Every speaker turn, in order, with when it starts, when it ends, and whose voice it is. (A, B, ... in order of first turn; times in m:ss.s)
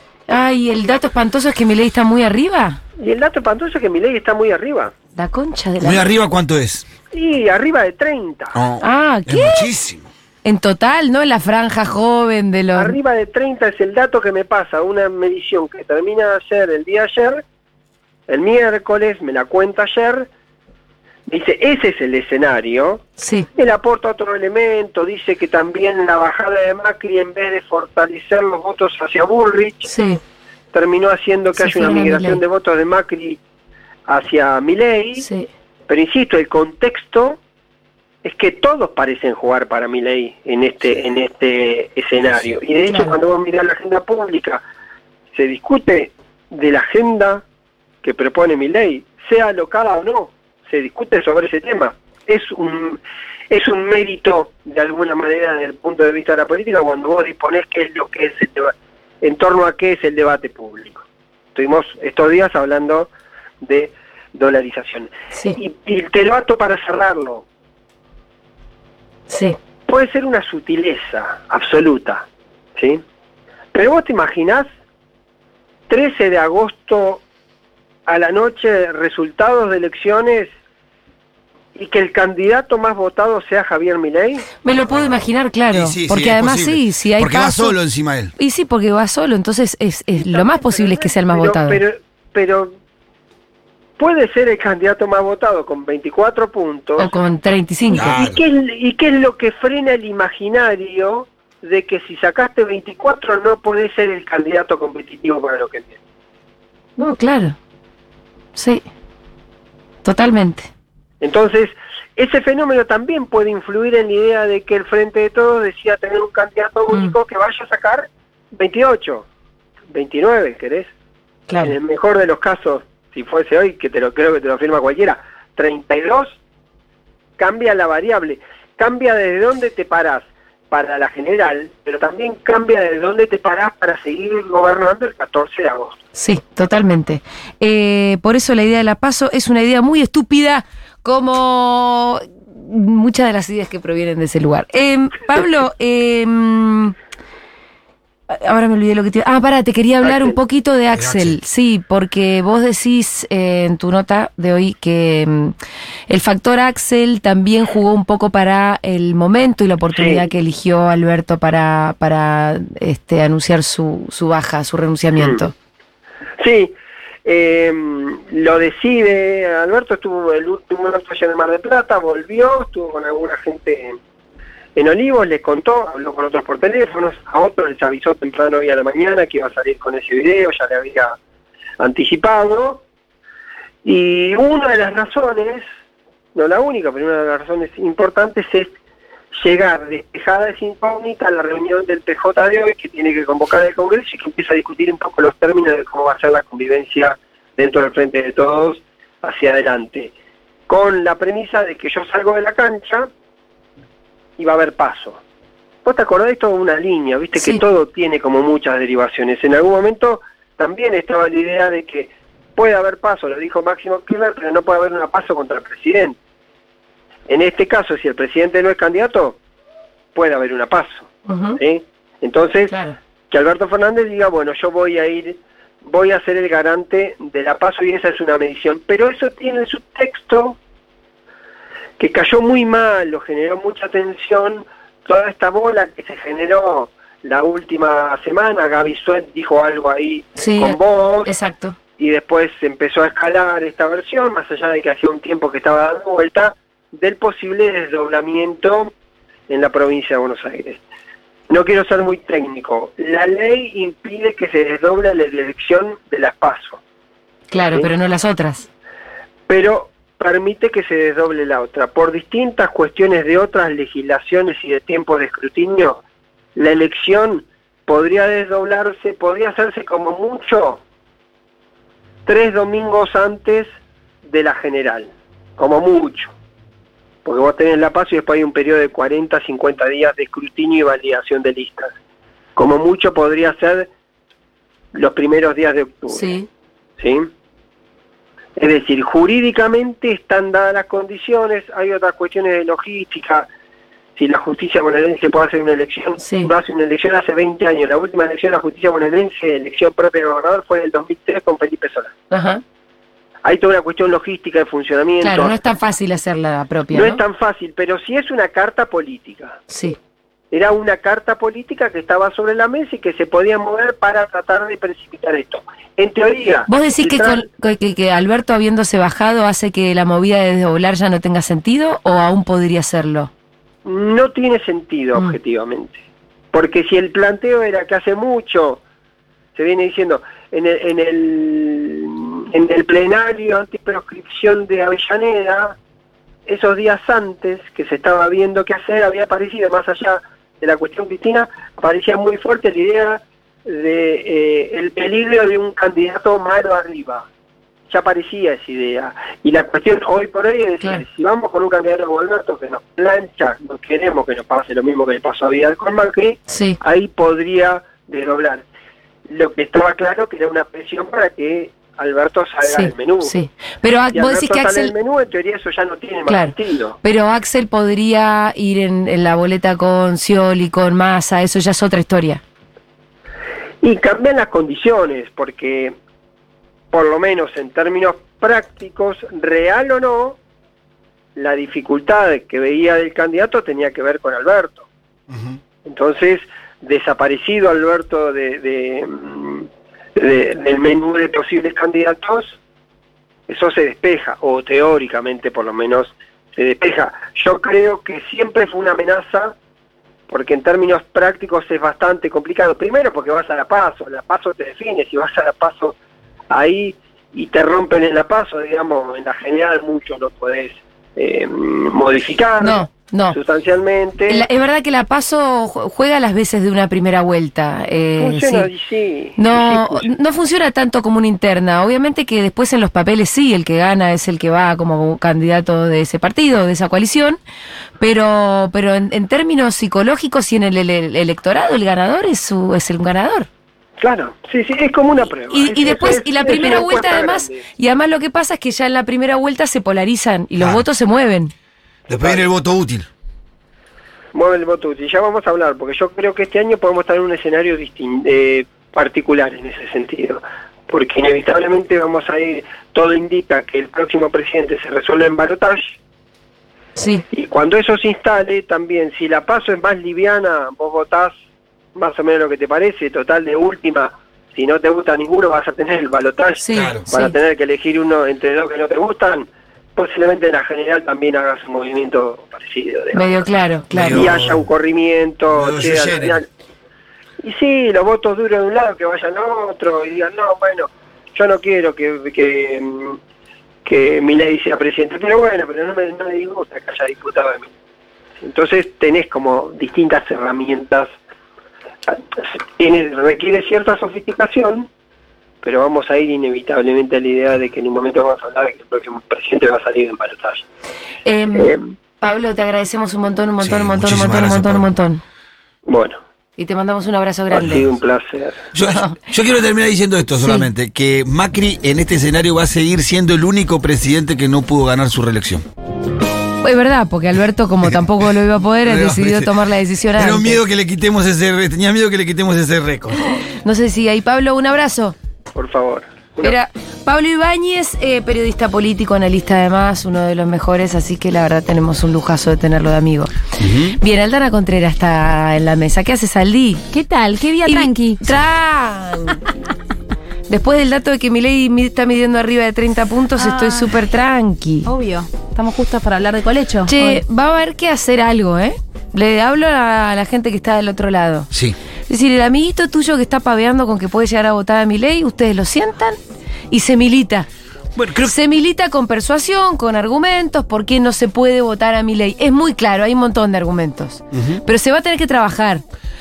0:00.3-0:02.8 A
0:03.0-0:04.9 B
0:05.2-0:06.0 A
0:05.8-0:06.8 C
0:07.1-0:08.5 B
0:08.5-0:10.1 C
0:08.8-0:09.7 A
0:10.4-0:13.0 A
0:12.7-0:17.4 B
0:18.3-0:20.3 B
0:21.3-0:23.0 B
0:23.2-0:23.5 A
0:23.6-0:29.8 B
0:29.8-0:30.2 A
0:30.7-0:33.4 B
0:31.6-0:32.4 A
0:34.1-0:35.2 B
0:35.2-0:35.5 A
0:35.9-0:37.4 B
0:38.2-0:44.6 B
0:42.2-0:42.6 C
0:42.9-0:43.2 A
0:45.3-0:47.4 B
0:48.0-1:03.1 B
1:03.6-1:07.4 B
1:09.3-1:09.6 A
1:09.9-1:13.0 B
1:13.7-1:14.7 B
1:15.9-1:17.2 B
1:18.1-1:20.5 B
1:21.7-1:24.5 B
1:24.6-1:27.8 A
1:24.9-1:25.2 C
1:25.7-1:28.3 C
1:28.4-1:31.8 A
1:30.2-1:32.8 B
1:34.0-1:37.1 B
1:37.0-1:38.2 A
1:37.9-1:46.0 B
1:37.9-1:38.4 C
1:47.0-1:47.6 A
1:48.5-1:48.8 A
1:50.0-1:50.7 A
1:51.2-1:59.3 B
1:56.9-1:57.2 A
1:59.9-2:00.9 B
2:01.5-2:01.7 A
2:01.6-2:06.4 B
2:07.4-2:16.0 B
2:16.1-2:26.9 A
2:28.3-2:35.5 A
2:30.0-2:30.4 B
2:30.9-2:31.4 C
2:36.1-2:45.5 A
2:39.9-2:40.3 B
2:45.2-2:45.4 B
2:46.4-2:46.7 B
2:47.2-2:54.0 B
2:54.8-3:01.2 B
3:01.8-3:02.8 B
3:03.8-3:05.6 B
3:06.3-3:08.7 B
3:09.3-3:20.1 B
3:20.7-3:23.1 B
3:24.4-3:25.2 B
3:25.8-3:36.2 B
3:27.3-3:27.6 A
3:37.3-3:39.4 B
3:40.1-3:42.7 B
3:41.3-3:41.6 A
3:42.7-3:43.0 A
3:43.3-3:50.6 B
3:52.0-4:01.3 B
4:00.4-4:01.8 A
4:02.0-4:08.9 B
4:09.5-4:10.8 B
4:11.5-4:16.8 B
4:17.5-4:18.7 A
4:19.5-4:26.0 B
4:26.6-4:30.8 B
4:32.2-4:33.7 B
4:34.2-4:36.3 B
4:37.2-4:41.9 B
4:42.6-4:43.9 B
4:44.9-4:46.3 B
4:46.1-4:46.5 A
4:47.0-4:47.3 B
4:48.6-4:53.5 B
4:54.2-5:02.1 B
4:56.2-4:56.5 A
5:02.3-5:02.6 A
5:03.4-5:05.6 B
5:05.2-5:07.2 A
5:06.9-5:09.6 B
5:09.7-5:10.0 A
5:10.5-5:17.4 B
5:16.7-5:23.3 A
5:23.8-5:26.0 B
5:26.5-5:28.8 B
5:29.5-5:35.8 B
5:36.4-5:47.3 B
5:47.9-5:58.6 B
5:56.5-5:56.8 A
5:59.3-6:03.3 B
6:02.6-6:04.9 A
6:04.1-6:07.0 B
6:06.2-6:12.4 A
6:13.8-6:16.0 B
6:16.9-6:20.4 B
6:21.4-6:24.9 B
6:25.3-6:25.6 C
6:25.8-6:32.6 B
6:33.5-6:39.6 B
6:40.3-6:46.0 B
6:46.5-6:54.4 B
6:52.6-6:53.4 A
6:54.3-6:58.7 A
6:58.2-7:00.1 B
6:59.4-7:07.4 A
7:08.0-7:13.5 A
7:14.0-7:17.6 B
7:15.5-7:21.5 A
7:22.1-7:23.1 C
7:22.2-7:22.4 B
7:24.3-7:36.0 B
7:37.0-7:37.2 A
7:37.3-7:41.3 B
7:41.9-7:53.2 B
7:46.6-7:47.3 A
7:46.7-7:47.0 C
7:53.1-7:54.3 A
7:53.9-7:54.7 C
7:54.1-7:56.4 B
7:55.5-7:56.4 C
7:57.4-8:03.2 B
8:03.8-8:07.7 B
8:08.4-8:11.1 B
8:12.1-8:14.9 B
8:15.6-8:20.6 B
8:21.2-8:25.2 A
8:21.6-8:21.8 B
8:23.6-8:24.9 C
8:25.9-8:26.2 B
8:26.6-8:27.8 A
8:27.5-8:28.6 B
8:27.7-8:28.0 C
8:28.7-8:35.6 C
8:28.8-8:29.2 A
8:30.4-8:30.7 A
8:36.6-8:40.6 A
8:38.8-8:39.5 C
8:40.1-8:43.3 C
8:43.4-8:45.2 A
8:45.5-8:46.5 B
8:46.4-8:53.3 A
8:53.6-8:54.0 C
8:53.9-8:56.8 A
8:56.9-8:58.2 D
8:57.6-8:59.5 A
9:00.5-9:04.9 A
9:03.4-9:03.9 D
9:04.8-9:07.2 D
9:06.9-9:11.5 A
9:12.1-9:16.2 A
9:16.7-9:17.5 A
9:18.0-9:18.3 C
9:18.2-9:25.8 A
9:24.3-9:24.6 C